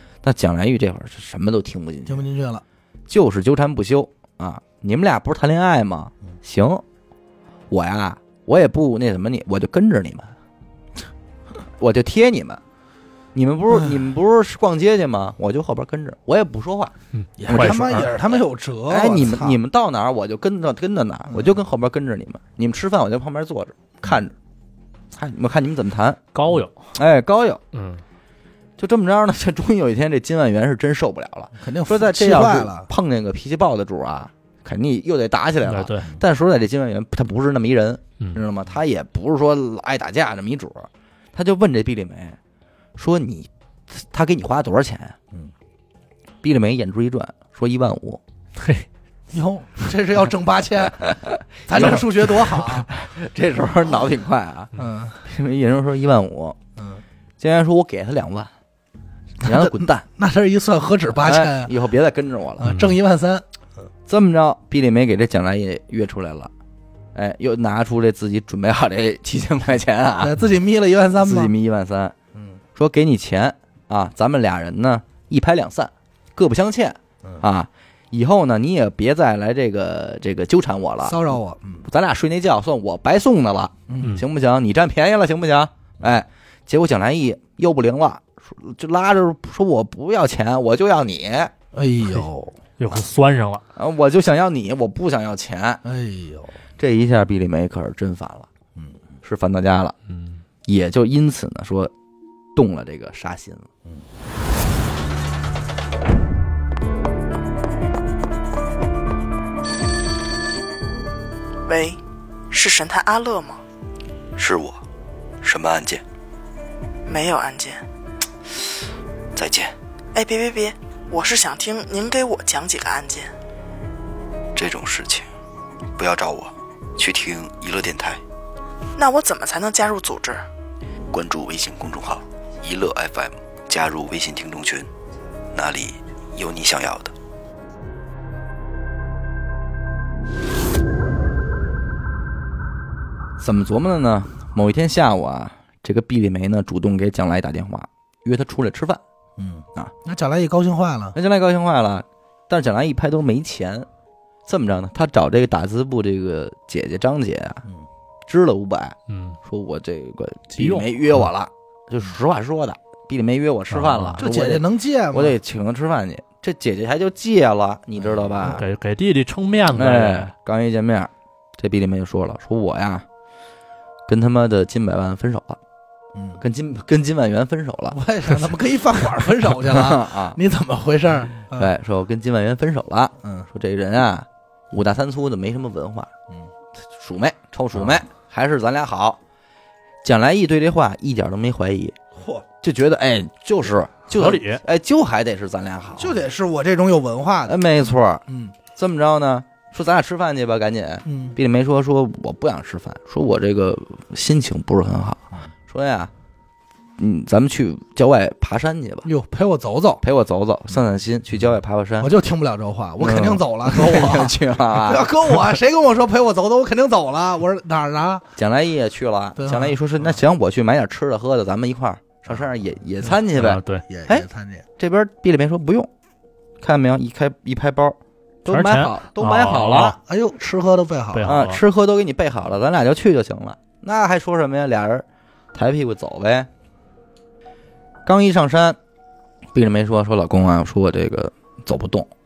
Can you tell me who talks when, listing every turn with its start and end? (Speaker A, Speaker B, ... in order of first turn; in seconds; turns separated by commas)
Speaker A: 0.2-2.3, Speaker B: 2.1-2.6, Speaker A: 3.1-6.8, Speaker A: 7.7-10.3, Speaker A: 11.8-12.6, Speaker A: 13.3-16.9, Speaker C: 17.1-18.1, Speaker B: 17.4-19.6, Speaker A: 17.5-24.4, Speaker B: 21.3-21.6, Speaker A: 25.1-26.2, Speaker C: 26.3-26.9, Speaker A: 26.9-27.6, Speaker C: 27.7-28.0, Speaker A: 28.8-42.4, Speaker B: 31.6-32.9, Speaker C: 35.7-36.1, Speaker A: 43.0-45.2, Speaker A: 46.4-48.2, Speaker C: 48.6-48.9, Speaker B: 49.3-52.9, Speaker A: 51.2-54.7, Speaker B: 54.8-55.2, Speaker A: 55.2-56.6, Speaker B: 56.8-57.0, Speaker A: 57.4-58.5, Speaker A: 59.4-60.0, Speaker B: 59.4-61.7, Speaker A: 61.2-62.7, Speaker B: 62.6-63.5, Speaker C: 62.6-63.0, Speaker A: 64.1-66.5, Speaker A: 67.2-70.4, Speaker B: 70.2-71.5, Speaker A: 71.2-72.2, Speaker A: 72.8-81.3, Speaker B: 81.0-81.9, Speaker A: 81.9-91.5, Speaker B: 83.9-84.1, Speaker B: 91.7-92.6, Speaker C: 92.8-93.6, Speaker A: 93.8-95.8, Speaker B: 95.8-96.6, Speaker A: 96.8-98.5, Speaker A: 99.2-100.0, Speaker C: 100.1-100.4, Speaker A: 100.7-101.9, Speaker A: 102.5-103.7, Speaker D: 111.7-113.6, Speaker E: 114.4-114.8, Speaker E: 115.4-116.0, Speaker D: 117.1-117.8, Speaker E: 119.3-119.7, Speaker D: 120.1-123.3, Speaker E: 124.5-125.3, Speaker E: 126.0-128.2, Speaker D: 129.0-130.5, Speaker E: 131.1-134.9, Speaker E: 135.5-137.2, Speaker A: 143.4-149.0, Speaker B: 149.4-151.2, Speaker A: 151.2-153.9, Speaker A: 154.5-157.6, Speaker A: 158.3-168.6, Speaker C: 159.1-159.4, Speaker C: 160.6-161.2, Speaker C: 163.7-164.2, Speaker B: 164.2-165.4, Speaker B: 168.0-168.5, Speaker C: 168.4-170.3, Speaker A: 169.7-173.1, Speaker A: 174.1-175.6, Speaker B: 176.1-176.4, Speaker A: 176.4-178.0, Speaker B: 177.9-181.7, Speaker A: 179.7-180.4, Speaker A: 181.6-186.1, Speaker B: 183.2-183.5, Speaker A: 186.9-189.2, Speaker A: 190.0-192.0, Speaker B: 192.2-192.4, Speaker A: 192.6-196.2, Speaker C: 194.1-194.6, Speaker B: 196.0-197.6, Speaker A: 197.5-206.1, Speaker B: 198.3-198.5, Speaker B: 201.1-201.4, Speaker A: 207.0-209.1, Speaker B: 209.1-210.0, Speaker A: 210.0-212.1, Speaker B: 212.0-218.3, Speaker A: 213.0-215.1, Speaker A: 218.4-224.3, Speaker B: 219.4-220.2, Speaker C: 223.2-223.8, Speaker B: 223.9-224.7, Speaker A: 224.8-225.9, Speaker A: 226.6-229.9, Speaker C: 228.5-230.0, Speaker B: 229.8-231.3, Speaker C: 231.1-231.6, Speaker A: 231.3-236.5, Speaker A: 238.1-238.8, Speaker A: 239.5-242.1